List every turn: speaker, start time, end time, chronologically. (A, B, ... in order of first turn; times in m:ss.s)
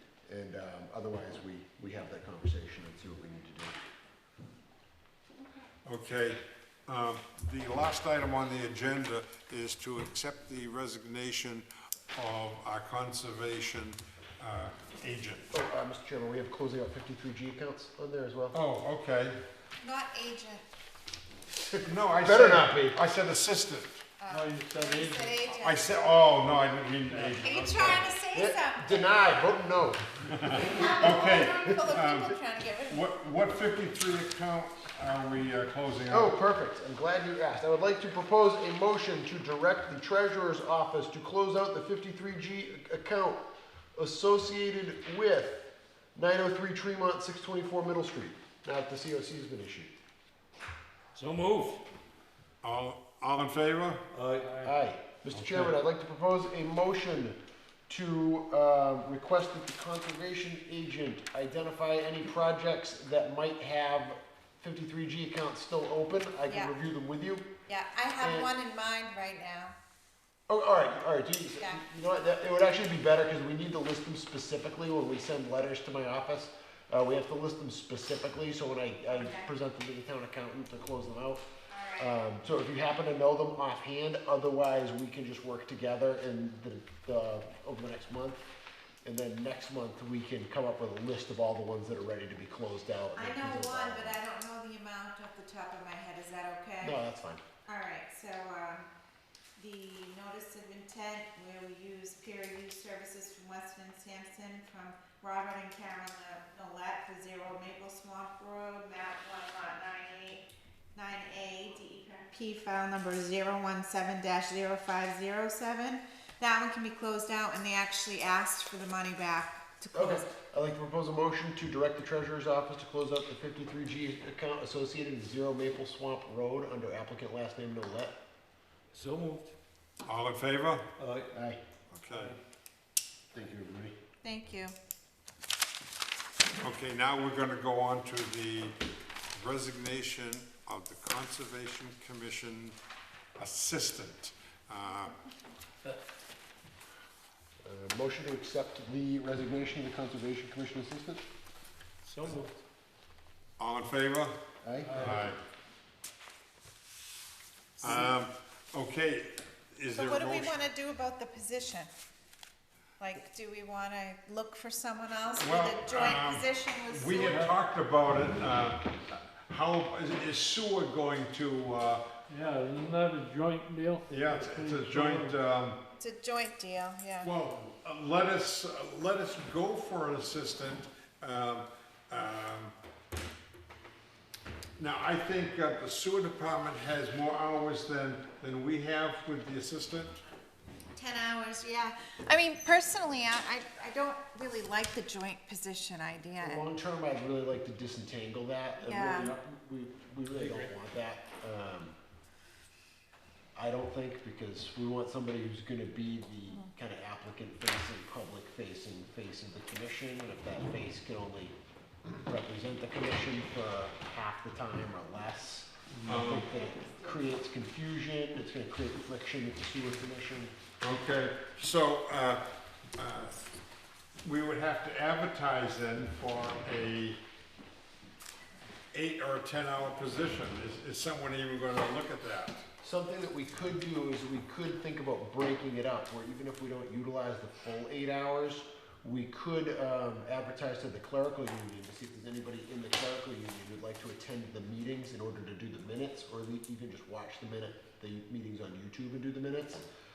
0:00.3-0:03.8 A
0:05.8-0:15.5 B
0:15.5-0:18.6 A
0:18.5-0:19.4 B
0:19.8-0:20.6 C
0:21.5-0:23.0 A
0:21.8-0:24.0 B
0:24.2-0:25.8 C
0:24.3-0:25.3 D
0:25.6-0:28.1 B
0:27.1-0:28.1 D
0:27.4-0:29.2 C
0:28.3-0:31.1 A
0:30.2-0:32.4 B
0:30.7-0:33.0 C
0:32.9-0:36.3 B
0:36.1-0:49.9 A
0:51.1-0:51.8 D
0:52.6-0:54.0 B
0:54.1-0:54.7 D
0:54.6-1:07.5 A
1:06.5-1:06.7 C
1:07.7-1:09.7 C
1:08.2-1:08.5 A
1:10.5-1:21.4 A
1:19.1-1:19.5 C
1:21.7-1:22.1 C
1:22.0-1:28.4 A
1:29.0-1:34.2 A
1:33.1-1:37.0 C
1:36.8-1:37.4 A
1:37.6-1:38.9 C
1:39.6-2:00.3 C
1:59.9-2:08.2 A
2:08.9-2:09.5 D
2:10.0-2:10.9 B
2:11.0-2:11.3 D
2:11.3-2:11.6 A
2:11.9-2:12.4 B
2:12.1-2:12.4 D
2:13.3-2:14.0 A
2:14.2-2:14.7 C
2:16.6-2:18.7 B
2:19.3-2:22.8 B
2:23.4-2:25.2 B
2:27.6-2:31.2 A
2:32.0-2:32.6 D
2:33.6-2:35.4 B
2:34.6-2:35.3 A
2:34.9-2:35.2 D
2:37.8-2:40.6 B
2:37.8-2:38.1 A
2:40.0-2:41.9 C
2:43.0-2:47.4 C
2:45.4-2:52.1 B
2:47.2-2:47.5 D
2:52.3-2:55.3 D
2:54.1-2:55.8 B
2:56.0-2:57.3 C
2:57.2-3:02.7 B
3:04.8-3:10.2 B
3:10.9-3:16.7 C
3:16.4-3:21.9 A
3:18.8-3:19.3 C
3:20.3-3:20.7 D
3:23.5-3:31.5 A
3:32.2-3:40.5 A
3:36.0-3:36.5 B
3:36.2-3:37.3 C
3:40.8-3:42.4 B
3:43.0-3:43.4 B
3:44.2-3:47.2 B
3:48.9-3:52.6 B
3:52.8-4:09.8 A